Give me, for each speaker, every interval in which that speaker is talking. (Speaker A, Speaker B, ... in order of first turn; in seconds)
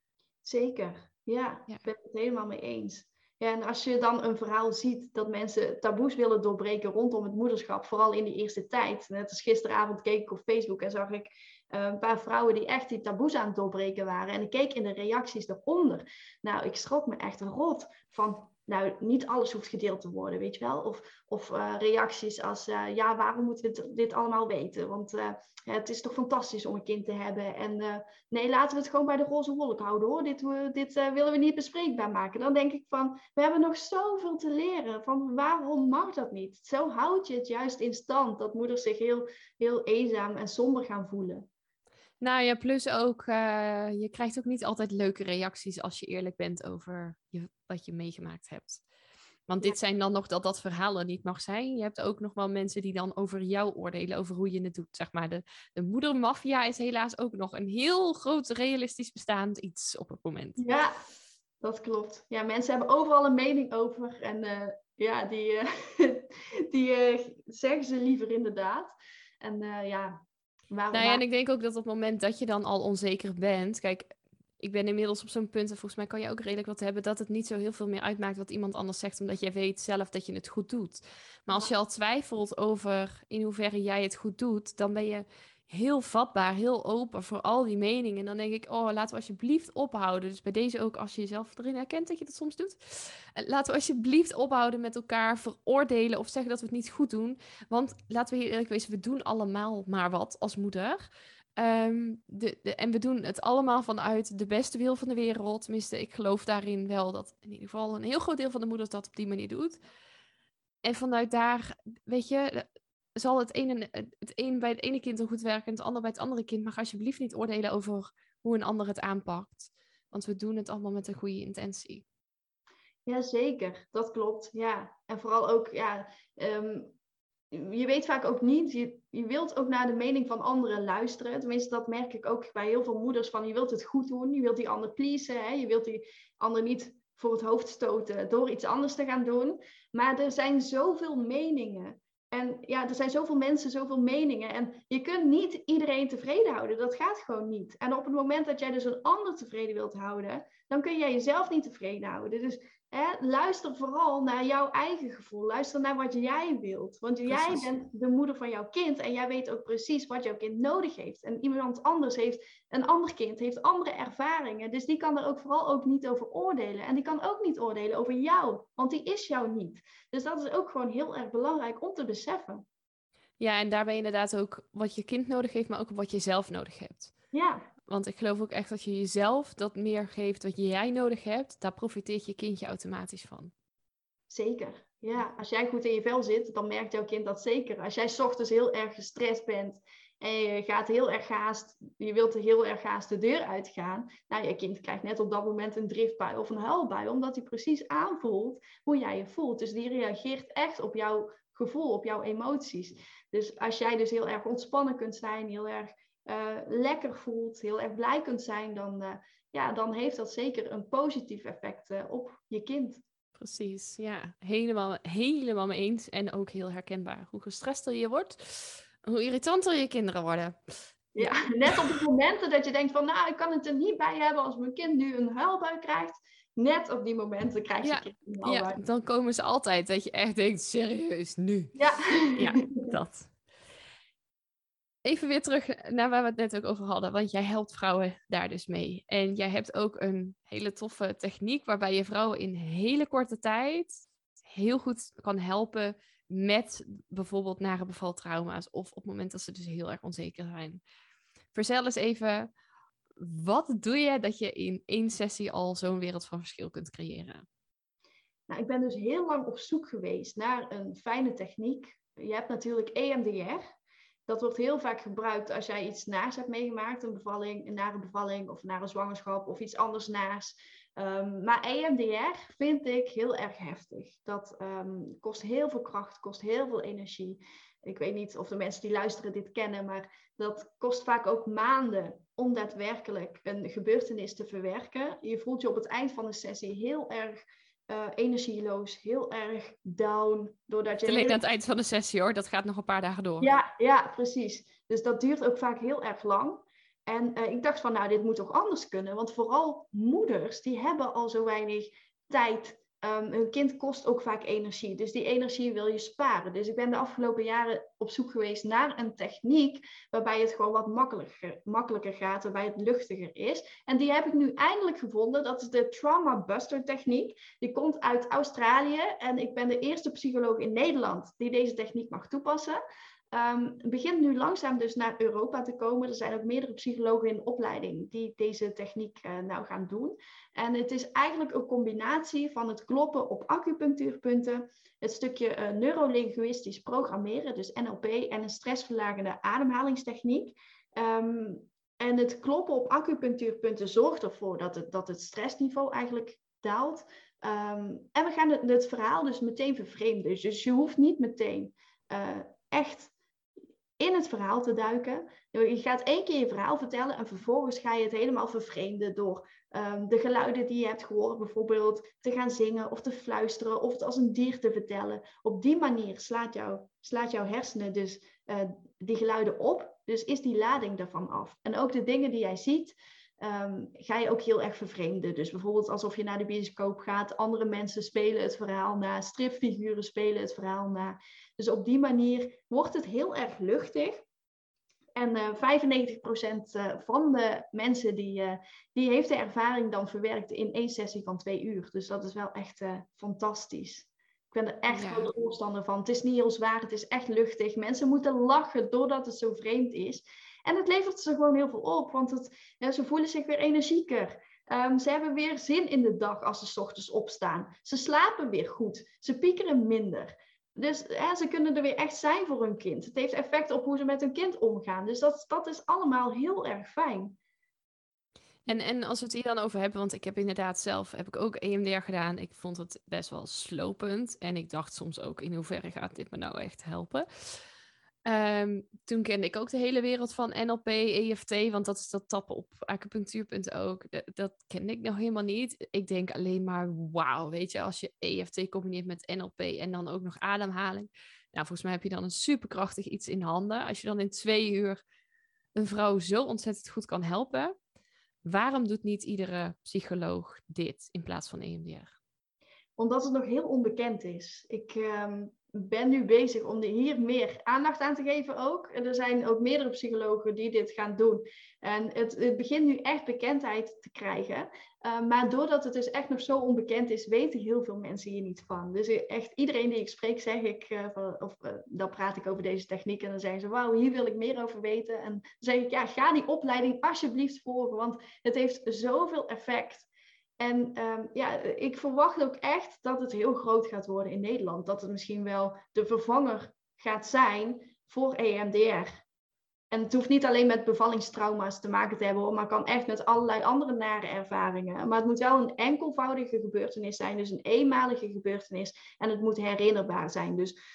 Speaker A: 0.5-41.5, 60.6-61.0, 61.6-71.2, 123.1-126.9, 127.5-172.7, 177.3-177.7, 184.3-213.0, 221.2-228.8, 231.8-232.9, 258.5-263.7, 264.3-291.4, 293.4-322.8, 323.3-353.1, 354.0-384.2, 385.2-417.4, 453.0-480.1, 480.6-489.2, 489.9-500.8
Speaker B: 42.2-48.8, 49.5-60.6, 70.9-109.8, 110.8-122.0, 157.3-157.7, 173.4-177.1, 177.9-183.5, 213.4-222.0, 227.8-233.3, 235.0-250.8, 251.5-252.5, 253.2-257.4, 291.0-293.5, 394.9-395.3, 418.7-427.6, 428.2-445.0, 445.8-447.7, 448.4-452.1